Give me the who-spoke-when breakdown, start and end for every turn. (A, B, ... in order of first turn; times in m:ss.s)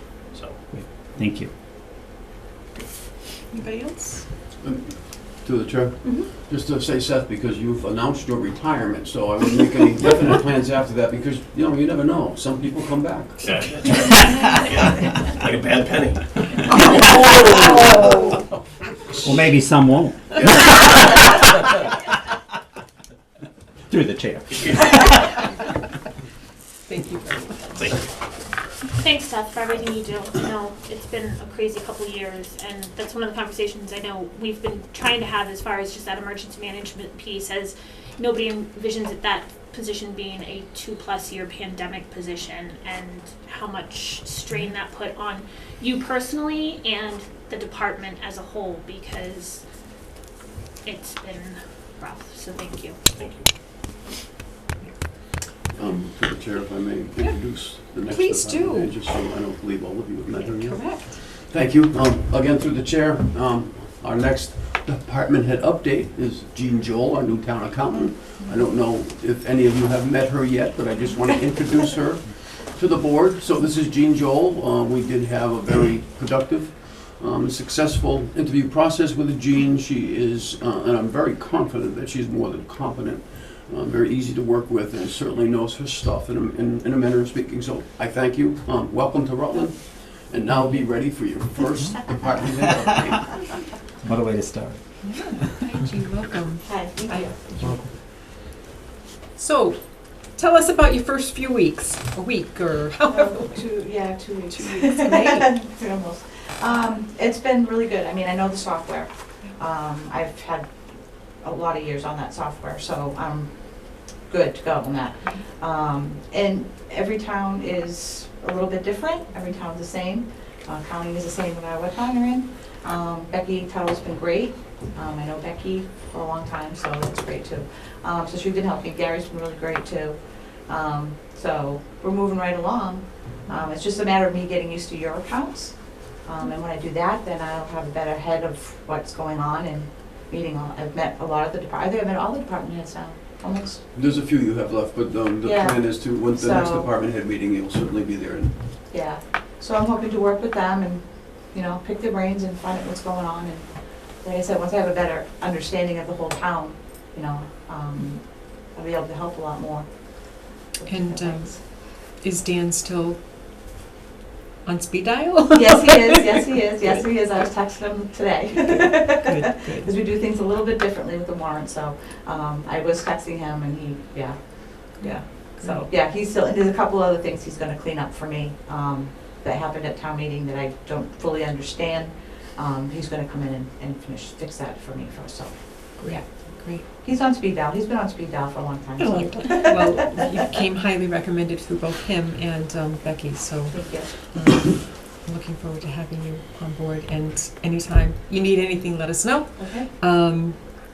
0:00.3-0:00.6 A
0:00.7-0:01.5 B
0:03.5-0:04.3 C
0:04.6-0:13.5 D
0:13.4-0:16.8 A
0:17.2-0:18.0 B
0:19.2-0:21.7 B
0:20.4-0:21.0 D
0:23.9-0:25.4 B
0:24.5-0:24.8 A
0:26.9-0:27.9 C
0:28.9-0:49.6 E
0:50.8-0:53.0 E
0:53.2-0:53.5 A
0:55.8-1:33.4 D
0:58.0-0:58.9 C
1:00.5-1:01.2 C
1:34.0-1:34.8 B
1:35.0-1:37.7 C
1:36.6-1:37.5 F
1:39.4-1:43.7 C
1:43.1-1:50.7 F
1:44.5-1:45.5 C
1:51.4-2:23.8 F
2:23.9-2:28.7 D
2:25.4-2:26.9 F
2:28.9-2:33.7 F
2:34.2-2:41.9 F
2:40.9-2:43.2 C
2:44.6-2:46.3 C
2:45.5-3:06.2 F
2:49.1-2:50.0 C
2:55.0-2:55.8 C
3:06.0-3:06.9 C
3:06.8-3:10.4 F
3:09.0-3:20.6 C
3:13.7-3:14.3 F
3:19.6-3:19.9 F